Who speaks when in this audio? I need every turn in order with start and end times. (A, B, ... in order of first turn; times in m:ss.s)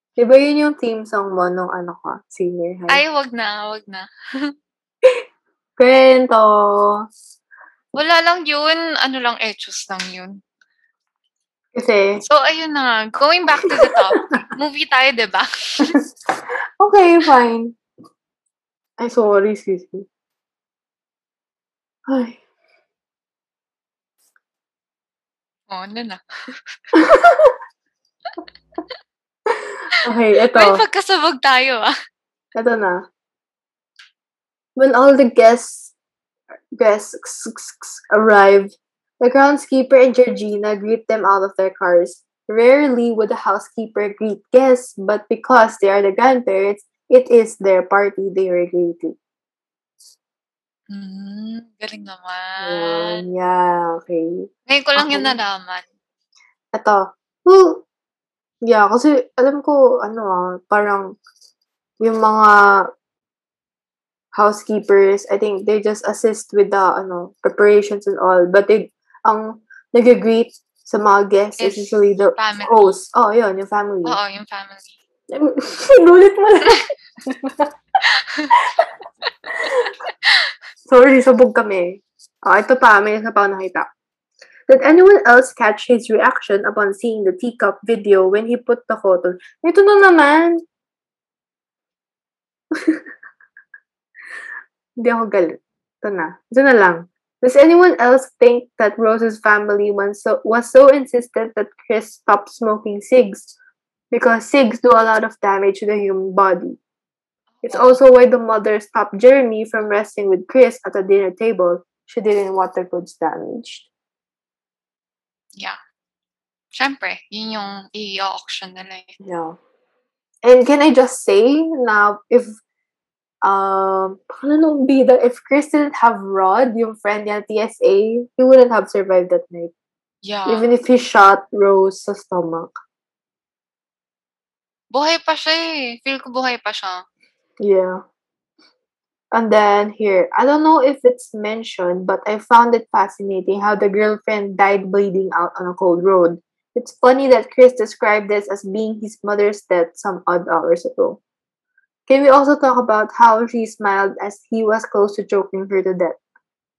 0:00.2-0:03.0 A
0:02.9-0:04.5 B
0:05.8-0:07.0 A
0:07.9-0:10.4 B
0:11.8-0:12.2 A
0:12.3-0:15.9 B
0:16.8-0:17.8 A
0:19.0-0:20.1 A
0:22.1-0:22.4 A
0:25.7-0:26.6 B
0:26.9-0:27.6 A
0:29.5-0:30.8 A
0:30.5-0:32.0 B
0:32.6-0:33.1 A
0:34.8-0:35.9 A
0:36.8-0:49.2 A
0:50.9-0:53.2 B
0:52.6-0:55.4 A
0:54.7-0:55.8 B
0:56.7-0:57.8 A
0:58.7-1:01.2 A
1:02.0-1:02.9 A
1:04.4-1:14.2 A
1:11.6-1:12.9 B
1:14.1-1:14.9 B
1:15.3-1:17.7 A
1:18.0-1:18.6 B
1:18.6-1:18.9 A
1:19.6-1:19.9 A
1:19.7-1:20.5 B
1:20.9-1:23.9 A
1:24.7-1:30.6 A
1:32.8-1:33.0 A
1:35.0-1:43.5 A
1:44.1-1:46.8 A
1:47.6-1:48.0 B
1:47.6-1:53.9 A
1:56.7-1:59.1 B
1:59.2-1:59.6 A
2:00.4-2:02.6 A
2:03.4-2:09.7 A
2:10.2-2:10.7 B
2:10.5-2:12.7 A
2:14.9-2:17.0 B
2:17.6-2:18.0 A
2:19.3-2:31.2 A
2:32.1-2:36.2 A